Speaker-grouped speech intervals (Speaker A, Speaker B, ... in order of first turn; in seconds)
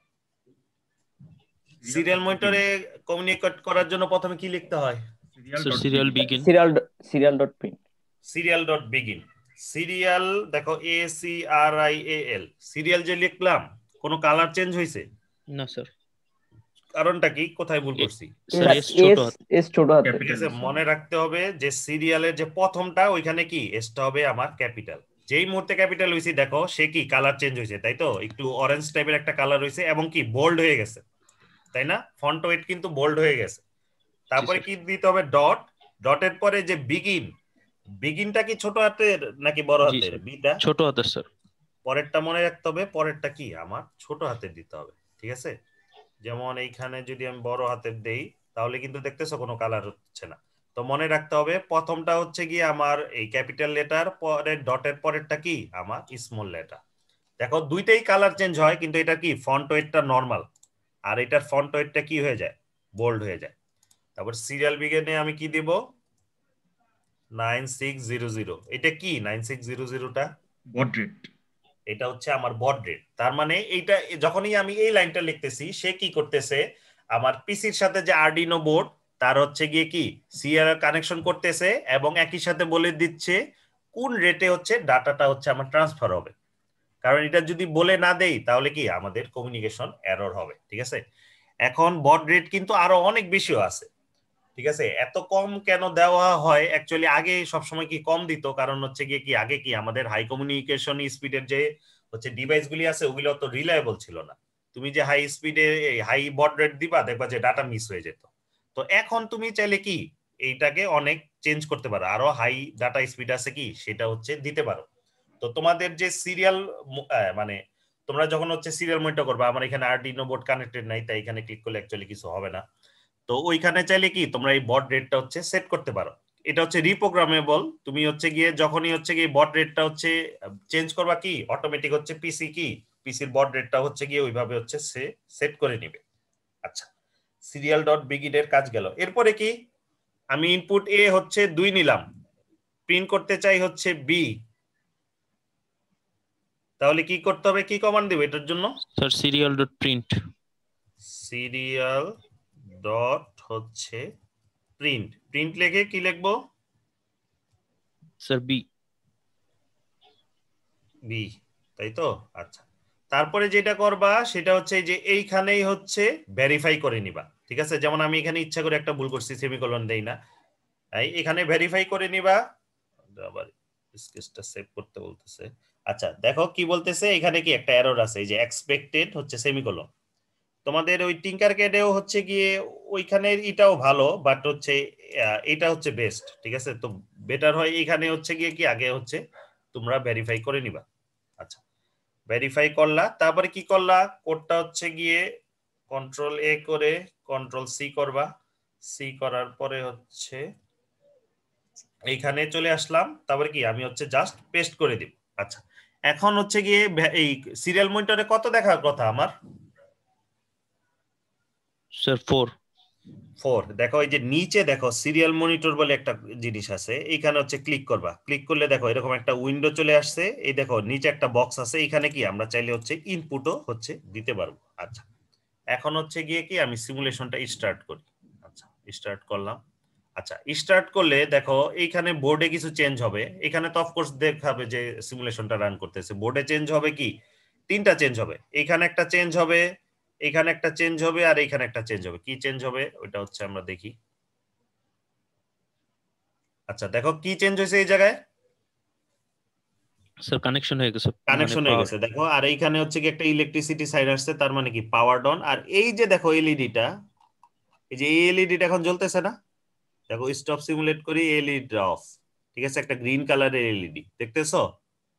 Speaker A: 1.8-2.6, 5.3-6.2, 20.1-20.6, 70.7-71.3
Speaker B: 1.9-5.0, 8.3-15.0, 17.0-18.5, 20.1-31.0, 31.7-33.6, 34.3-37.3, 38.0-40.6, 41.9-45.5, 46.2-56.8, 57.4-60.4, 61.1-63.5, 64.2-65.8, 67.4-70.3, 71.9-76.6, 77.1-83.4, 83.9-86.3, 87.0-91.0, 91.7-93.9, 94.6-114.8, 115.4-117.6, 118.1-122.6, 123.3-130.1, 130.7-136.0, 137.5-139.5, 140.3-142.0, 142.9-144.3, 146.8-148.7, 151.1-152.1, 152.8-154.0, 154.8-156.3, 161.1-170.2, 171.0-172.4, 173.2-179.9, 180.7-184.8, 185.5-189.2, 189.7-190.8, 192.3-195.2, 195.9-198.3, 198.9-200.4, 202.1-209.3, 213.4-225.0, 225.7-229.6, 230.2-237.1, 237.7-239.6, 240.3-243.9, 246.7-248.2, 251.3-256.9, 257.9-259.3, 260.1-262.0, 262.6-264.6
Speaker C: 5.6-6.5, 15.5-15.9, 18.0-19.3, 34.3-34.6, 39.9-41.2, 149.0-150.1, 158.2-158.6, 211.9-212.5, 250.2-251.9
Speaker D: 5.8-7.8, 18.5-20.2